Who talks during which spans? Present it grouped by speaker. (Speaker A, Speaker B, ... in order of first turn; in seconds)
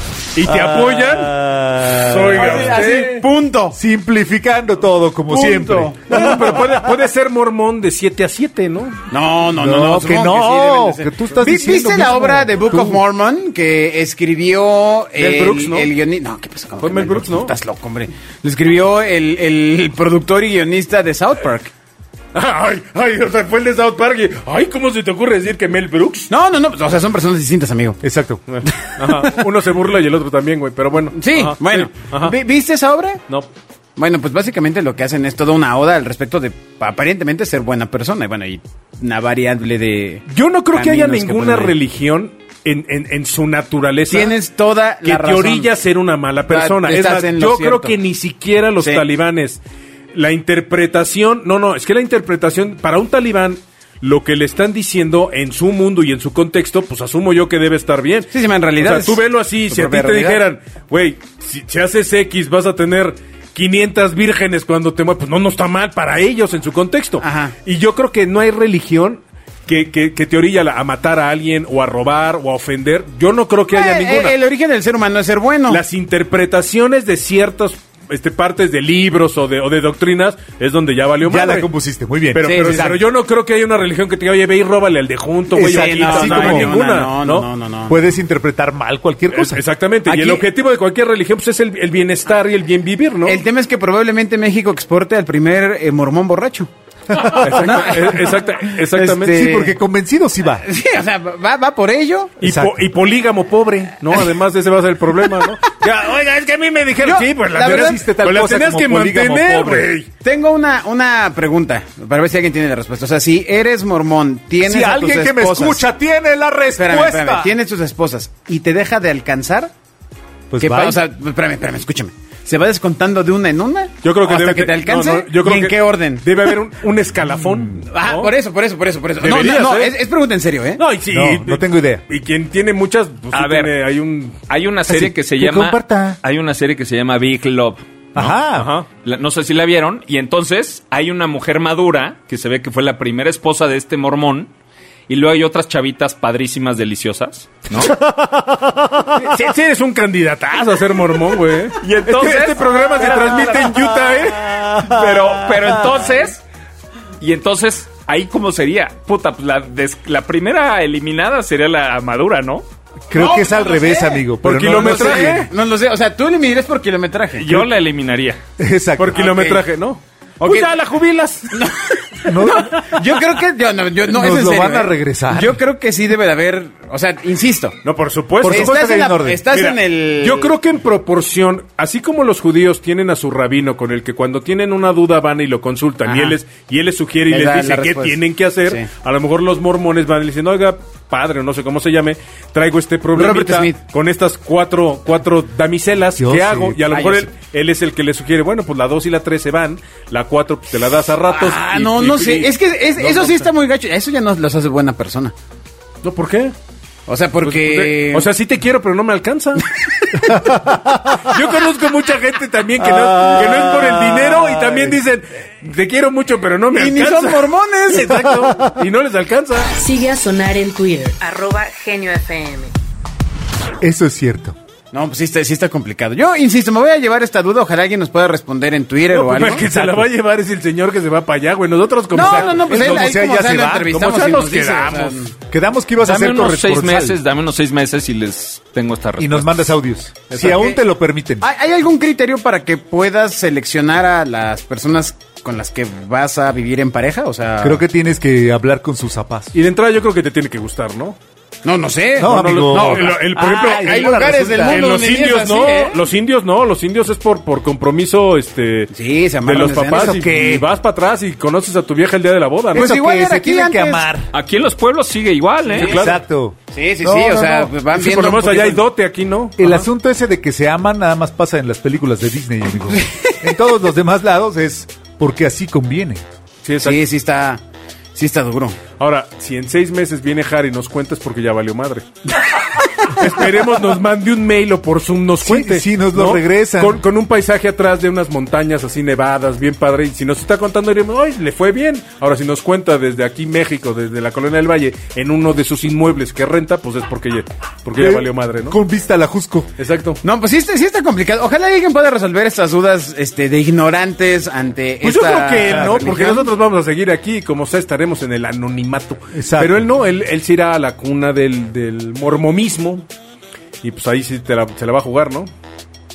Speaker A: 0.3-3.3, 5.3-9.0, 15.2-15.9, 16.8-17.5, 22.3-26.3, 28.5-32.4, 40.3-44.4, 45.0-49.6, 50.1-74.3, 75.7-81.7, 82.3-87.5, 89.3-93.4, 97.4-99.4, 102.4-110.1, 124.0-128.3, 129.2-129.9, 130.8-134.4, 138.5-138.9, 149.1-154.7, 164.4-165.5, 169.0-171.6, 177.8-178.8, 179.5-203.5, 206.0-206.6, 207.4-209.6, 211.1-219.7, 229.1-233.2, 233.9-235.2, 240.3-240.7, 249.5-251.2, 252.2-258.9, 259.4-262.9, 265.7-266.1, 267.9-269.9, 276.6-277.0, 278.9-282.1, 283.1-298.8, 299.8-300.2, 305.0-313.1, 313.8-315.5
Speaker B: 0.4-2.6, 3.7-6.7, 9.6-13.0, 28.0-28.4, 81.2-83.0, 85.8-86.8, 87.9-89.6, 97.1-97.7, 99.2-100.6, 102.4-102.8, 107.6-109.9, 114.6-117.5, 120.5-121.0, 131.1-132.0, 134.9-136.2, 138.1-138.7, 148.2-149.0, 163.1-165.5, 168.6-169.2, 172.2-172.8, 174.1-175.6, 178.4-179.4, 196.2-196.8, 223.8-224.6, 229.6-230.1, 232.1-233.9, 235.5-237.2, 239.2-241.4, 247.6-249.5, 252.2-254.9, 259.8-260.7, 262.7-264.3, 265.8-267.7, 269.6-276.2, 285.4-287.0, 298.0-299.7, 305.7-306.0, 309.3-309.8
Speaker C: 2.3-3.8, 5.3-6.5, 9.1-21.7, 26.3-28.0, 28.8-29.4, 31.1-33.2, 34.0-41.8, 44.1-45.7, 46.5-48.0, 48.8-49.0, 58.3-60.4, 67.2-67.5, 73.7-75.8, 82.4-82.9, 85.5-88.0, 90.1-90.4, 93.3-99.8, 100.6-102.4, 107.0-108.1, 110.2-115.8, 116.7-119.7, 120.6-126.3, 127.9-130.8, 163.1-167.6, 169.1-169.6, 170.4-170.8, 171.5-177.8, 178.4-180.5, 186.1-186.4, 187.3-188.9, 193.1-193.8, 196.9-197.3, 201.3-205.3, 207.1-208.3, 210.0-210.5, 216.7-218.4, 224.9-229.6, 232.1-235.3, 240.4-240.8, 241.4-247.8, 251.6-256.0, 258.9-260.2, 262.7-264.1, 265.8-266.1, 266.7-268.8, 276.8-277.6, 278.1-278.8, 300.2-306.5
Speaker D: 133.3-133.8, 134.5-138.4, 138.9-144.5, 145.1-148.0, 151.8-156.4, 157.2-162.6, 167.3-168.4, 236.0-239.7, 264.3-265.9
Speaker E: 219.7-222.7